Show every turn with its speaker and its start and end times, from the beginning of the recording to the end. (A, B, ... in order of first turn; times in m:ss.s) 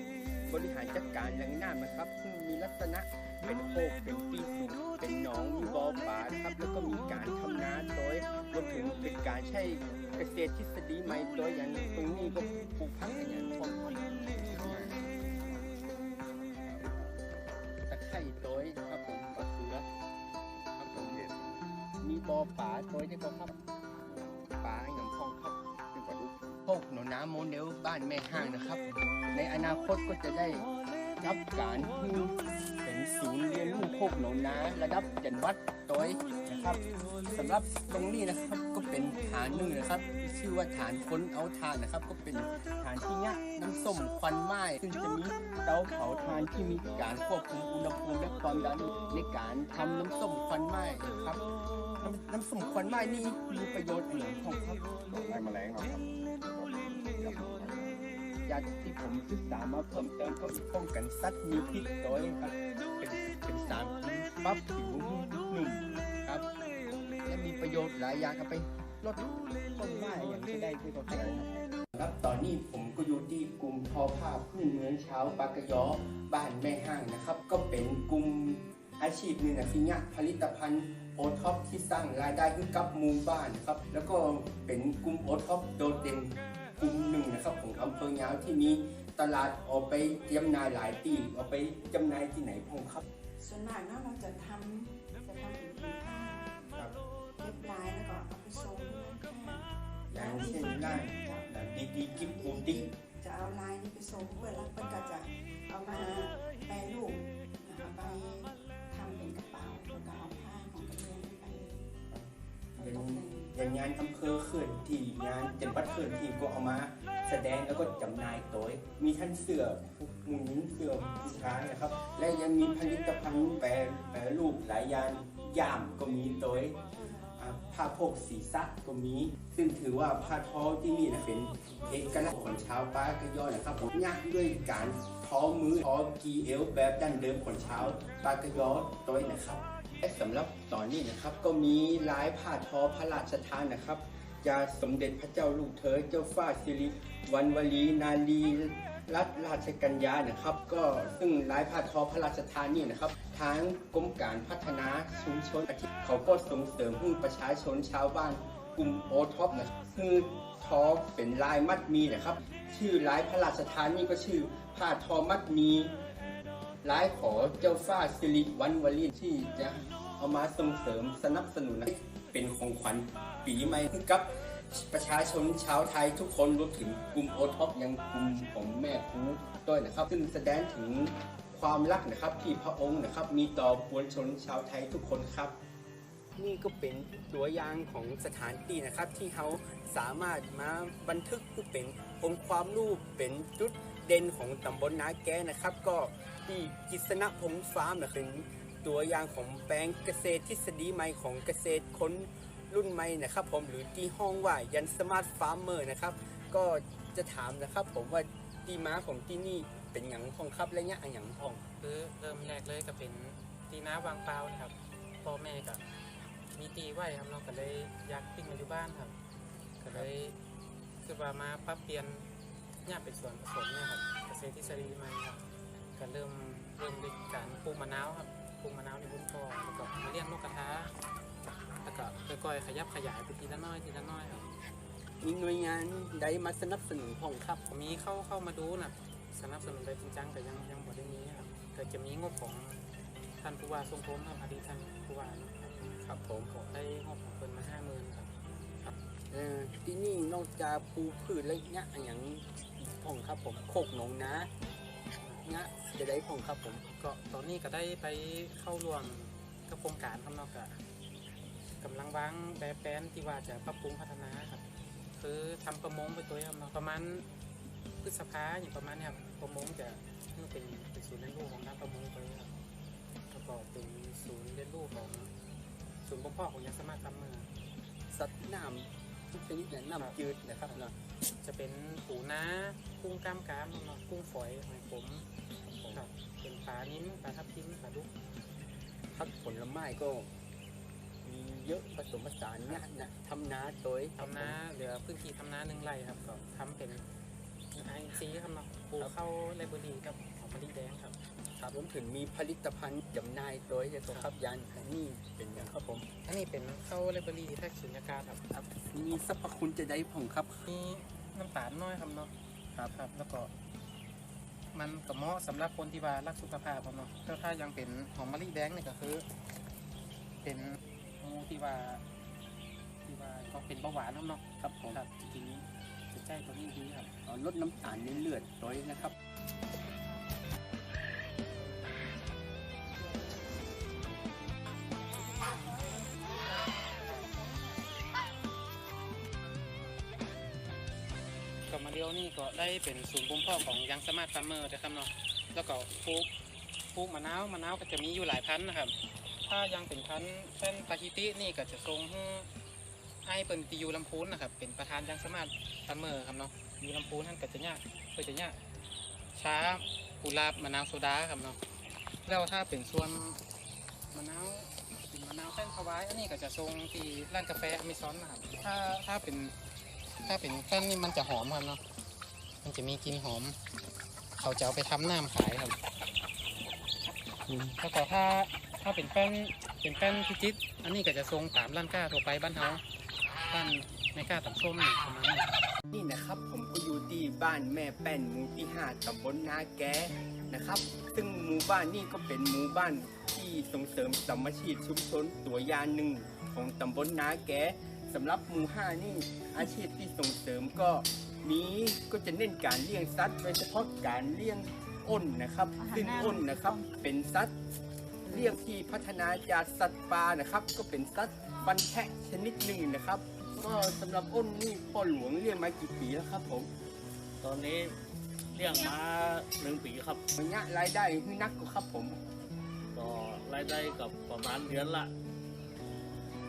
0:00.5-0:14.0 A
0:14.3-0:15.8 B
0:16.5-0:17.4 B
0:17.9-0:19.8 A
0:20.8-0:21.2 A
0:20.8-0:21.6 B
0:22.0-0:23.6 A
0:24.0-0:24.6 B
0:24.6-0:25.6 A
0:25.9-0:26.6 B
0:26.6-0:30.6 A
0:31.2-0:51.4 A
0:52.0-0:55.1 A
0:55.0-0:58.0 B
0:58.4-1:06.4 A
1:07.2-1:33.0 A
1:11.1-1:11.5 B
1:33.4-1:36.5 C
1:37.4-1:41.5 C
1:40.1-1:42.8 A
1:42.1-1:52.0 C
1:52.1-2:06.8 A
1:52.8-1:53.5 C
2:06.9-2:07.3 C
2:07.4-2:45.9 A
2:46.8-3:05.6 A
3:06.4-3:31.6 A
3:31.8-3:35.8 D
3:36.5-3:39.1 D
3:39.8-3:40.4 D
3:41.0-3:42.3 D
3:42.8-3:45.4 D
3:46.0-3:50.9 D
3:51.8-3:54.5 D
3:55.2-3:57.6 A
3:57.7-4:02.8 D
4:03.4-4:05.9 D
4:06.0-4:06.5 A
4:06.5-4:08.9 D
4:09.3-4:14.5 A
4:15.4-4:16.8 A
4:16.9-4:20.8 D
4:21.8-4:24.6 D
4:25.2-4:27.2 D
4:28.0-4:32.5 D
4:33.3-4:35.3 D
4:36.0-4:37.5 D
4:38.1-4:40.9 A
4:40.0-4:40.8 D
4:41.4-4:45.2 D
4:45.9-4:48.1 D
4:49.1-4:50.3 A
4:51.2-4:54.5 A
4:54.2-4:57.0 D
4:57.7-5:01.2 D
5:01.6-5:06.0 A
5:06.2-5:08.4 D
5:08.5-5:10.6 A
5:10.6-5:12.3 D
5:12.9-5:13.5 D
5:14.7-5:19.2 D
5:20.4-5:22.0 D
5:23.0-5:27.1 D
5:24.6-5:25.0 A
5:27.2-5:29.1 A
5:41.7-5:46.3 D
5:46.9-5:48.9 D
5:49.4-5:52.5 D
5:53.2-5:58.6 D
5:59.4-6:01.6 D
6:02.2-6:03.4 D
6:04.1-6:09.5 D
6:10.2-6:11.8 D
6:12.6-6:13.6 D
6:14.4-6:15.8 D
6:17.5-6:17.7 A
6:17.8-6:22.8 D
6:23.5-6:25.5 D
6:25.9-6:47.5 A
6:48.3-6:56.7 A
6:57.4-6:57.9 E
6:58.5-7:00.2 E
7:00.4-7:02.2 A
7:02.9-7:05.1 E